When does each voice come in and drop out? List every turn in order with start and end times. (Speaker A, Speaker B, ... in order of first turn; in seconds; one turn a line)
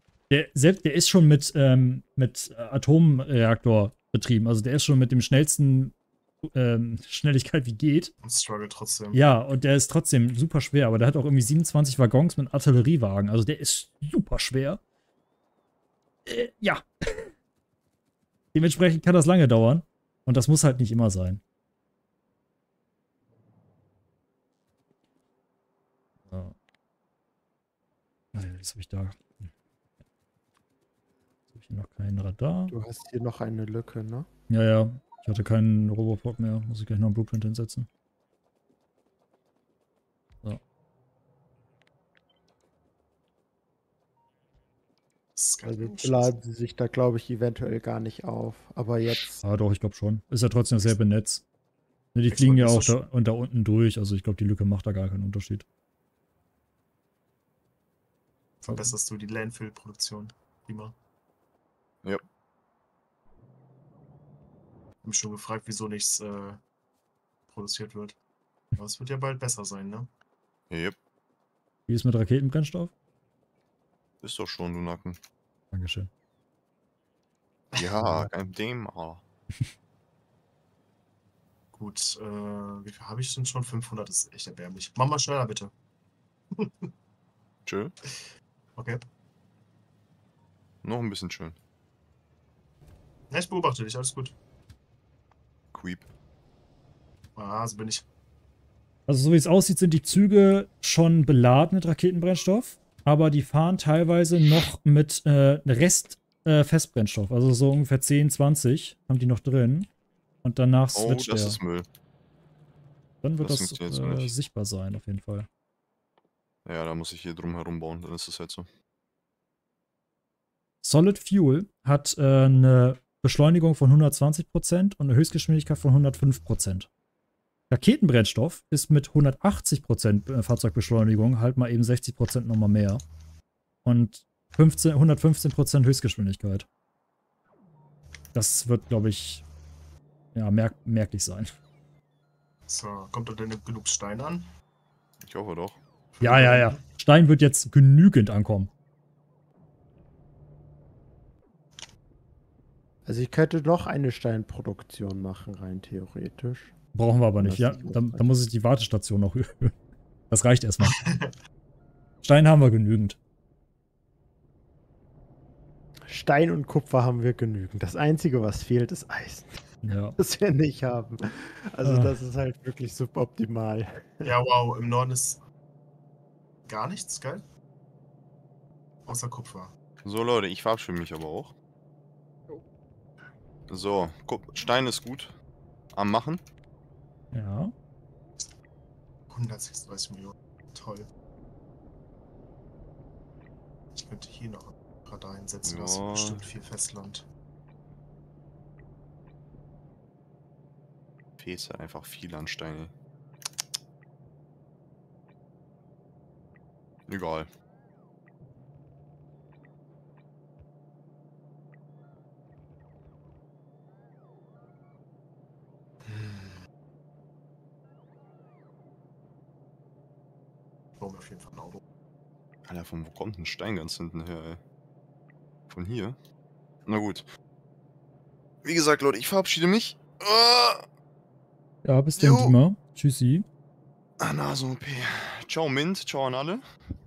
Speaker A: 0.3-8.1
Speaker B: 8.2-9.2
Speaker A: 9.1-14.8
Speaker A: 16.3-17.3
Speaker A: 18.5-21.4
Speaker A: 26.3-26.6
Speaker A: 28.3-29.5
Speaker A: 31.5-32.8
Speaker C: 32.7-34.3
Speaker A: 34.5-37.9
Speaker B: 45.4-46.4
Speaker C: 45.6-49.4
Speaker A: 49.4-51.4
Speaker A: 52.1-55.6
Speaker B: 52.3-53.0
Speaker B: 58.6-61.0
Speaker B: 65.0-66.6
Speaker B: 67.5-68.2
Speaker B: 68.8-70.1
Speaker D: 70.7-71.0
Speaker A: 71.9-72.9
Speaker D: 74.2-75.2
Speaker A: 75.7-76.1
Speaker D: 77.8-79.2
Speaker B: 81.7-85.7
Speaker B: 86.5-86.9
Speaker D: 87.7-87.9
Speaker B: 88.8-89.0
Speaker D: 90.8-91.6
Speaker B: 93.3-94.3
Speaker D: 95.7-96.1
Speaker B: 97.4-98.1
Speaker A: 99.1-109.9
Speaker A: 110.4-111.6
Speaker D: 110.9-111.9
Speaker A: 113.2-115.5
Speaker D: 113.4-114.3
Speaker D: 116.7-118.7
Speaker A: 120.8-126.9
Speaker A: 127.7-133.0
Speaker A: 133.8-136.7
Speaker A: 138.3-139.4
Speaker A: 140.3-141.5
Speaker B: 142.7-144.5
Speaker D: 145.2-145.8
Speaker B: 146.2-146.8
Speaker A: 146.2-148.7
Speaker C: 153.1-156.8
Speaker A: 156.9-159.8
Speaker C: 157.4-158.3
Speaker A: 160.3-161.1
Speaker B: 160.8-161.3
Speaker A: 162.2-163.2
Speaker C: 166.0-169.6
Speaker A: 169.8-170.2
Speaker C: 170.2-174.3
Speaker A: 171.8-172.1
Speaker B: 174.2-175.4
Speaker B: 176.7-177.4
Speaker B: 179.1-179.7
Speaker D: 180.0-181.5
Speaker D: 183.7-185.3
Speaker D: 185.9-186.4
Speaker A: 187.3-187.7
Speaker B: 189.3-191.1
Speaker B: 193.9-197.3
Speaker D: 195.7-196.5
Speaker D: 201.4-202.9
Speaker D: 207.1-207.5
Speaker B: 216.1-216.6
Speaker B: 221.0-221.8
Speaker D: 222.7-224.6
Speaker D: 225.7-226.2
Speaker D: 226.9-227.3
Speaker D: 228.6-230.8
Speaker A: 231.8-233.5
Speaker D: 232.2-232.5
Speaker D: 234.2-236.7